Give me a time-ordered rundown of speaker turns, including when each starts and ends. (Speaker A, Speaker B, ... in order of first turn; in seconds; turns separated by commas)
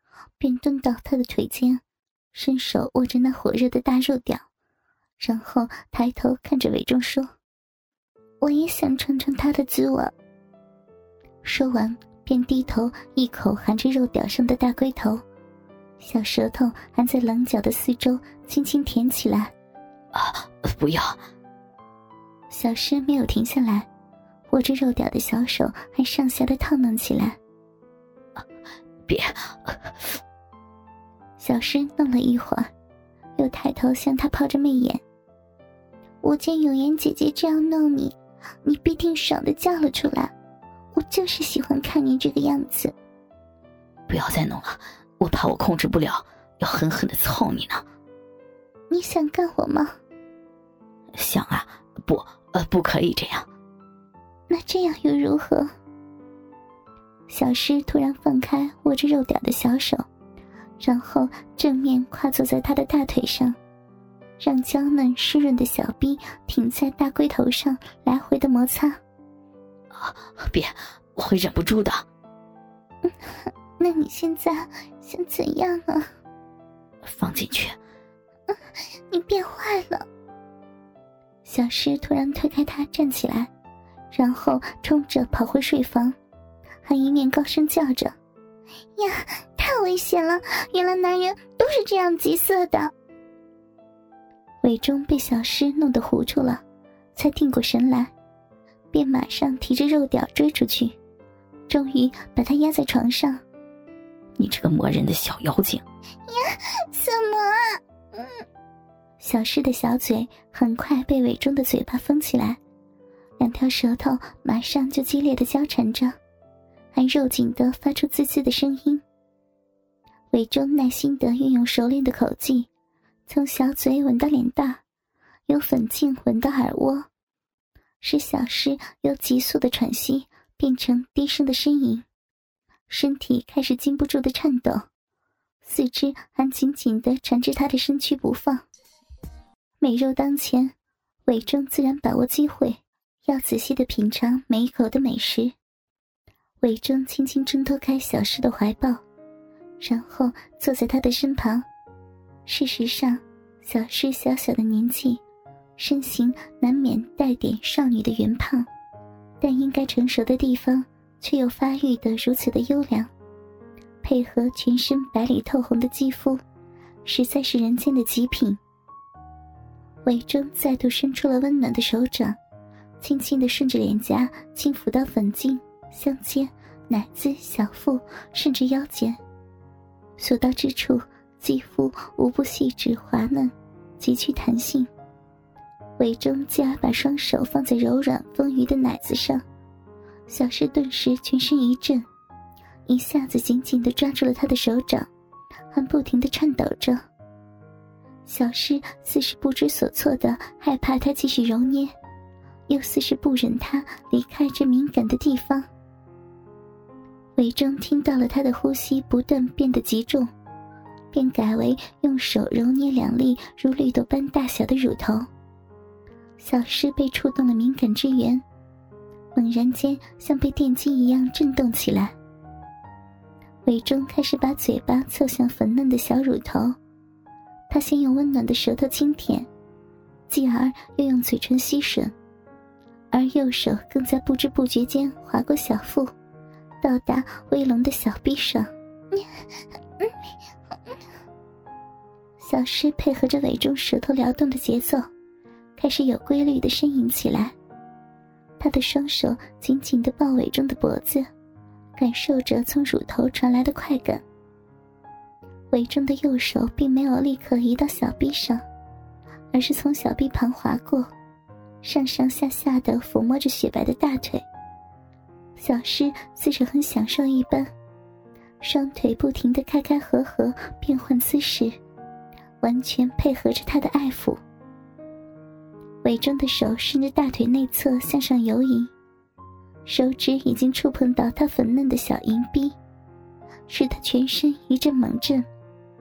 Speaker A: 0.4-1.8, Speaker A: 2.3-4.5, Speaker A: 5.2-7.3, Speaker A: 8.4-10.1, Speaker A: 11.4-15.2, Speaker A: 16.0-19.5, Speaker B: 20.1-21.2, Speaker A: 22.5-23.9, Speaker A: 24.5-27.4, Speaker B: 29.1-30.1, Speaker A: 31.4-32.7, Speaker A: 33.4-35.0, Speaker A: 36.2-40.3, Speaker A: 40.9-42.9, Speaker B: 44.1-47.8, Speaker A: 48.9-49.9, Speaker B: 51.1-53.5, Speaker A: 54.5-55.7, Speaker A: 57.3-60.0, Speaker A: 60.8-63.5, Speaker A: 64.4-69.0, Speaker B: 69.9-72.0, Speaker A: 73.0-76.1, Speaker B: 77.0-77.8, Speaker A: 79.1-80.0, Speaker A: 81.4-83.5, Speaker A: 84.1-86.2, Speaker A: 86.8-88.1, Speaker A: 89.0-92.9, Speaker A: 94.6-96.6, Speaker A: 97.1-98.1, Speaker A: 98.9-101.0, Speaker A: 101.7-103.4, Speaker B: 104.4-105.8, Speaker A: 106.3-108.3, Speaker A: 109.2-112.6, Speaker A: 113.4-116.2, Speaker A: 116.9-119.0, Speaker A: 120.3-122.7, Speaker A: 123.3-124.8, Speaker A: 125.5-127.1, Speaker A: 128.0-132.1, Speaker A: 132.9-134.8, Speaker A: 135.6-138.7, Speaker A: 139.8-140.7, Speaker A: 141.2-145.5, Speaker A: 146.6-149.0, Speaker A: 149.8-151.7, Speaker A: 152.4-155.2, Speaker A: 155.8-158.7, Speaker A: 159.4-163.1, Speaker A: 164.0-166.4, Speaker A: 167.0-168.6, Speaker A: 170.0-172.4, Speaker A: 173.0-179.2, Speaker A: 180.2-184.9, Speaker A: 186.0-189.4, Speaker A: 190.3-192.0, Speaker A: 192.9-195.1, Speaker A: 195.7-197.0, Speaker A: 198.2-201.9, Speaker A: 202.7-205.7, Speaker A: 207.3-210.3, Speaker A: 211.1-215.3, Speaker A: 216.4-218.4, Speaker A: 219.3-222.1, Speaker A: 223.6-226.8, Speaker A: 227.7-229.5, Speaker A: 230.3-232.1, Speaker A: 233.1-236.1, Speaker A: 236.8-238.7, Speaker A: 242.4-245.1, Speaker A: 245.8-247.5, Speaker A: 248.6-251.2, Speaker A: 252.0-254.2, Speaker A: 255.7-258.6, Speaker A: 259.5-261.1, Speaker A: 261.8-264.4, Speaker A: 265.6-267.7, Speaker A: 268.6-271.8, Speaker A: 272.6-274.4, Speaker A: 276.0-278.9, Speaker A: 279.9-282.8, Speaker A: 283.7-285.4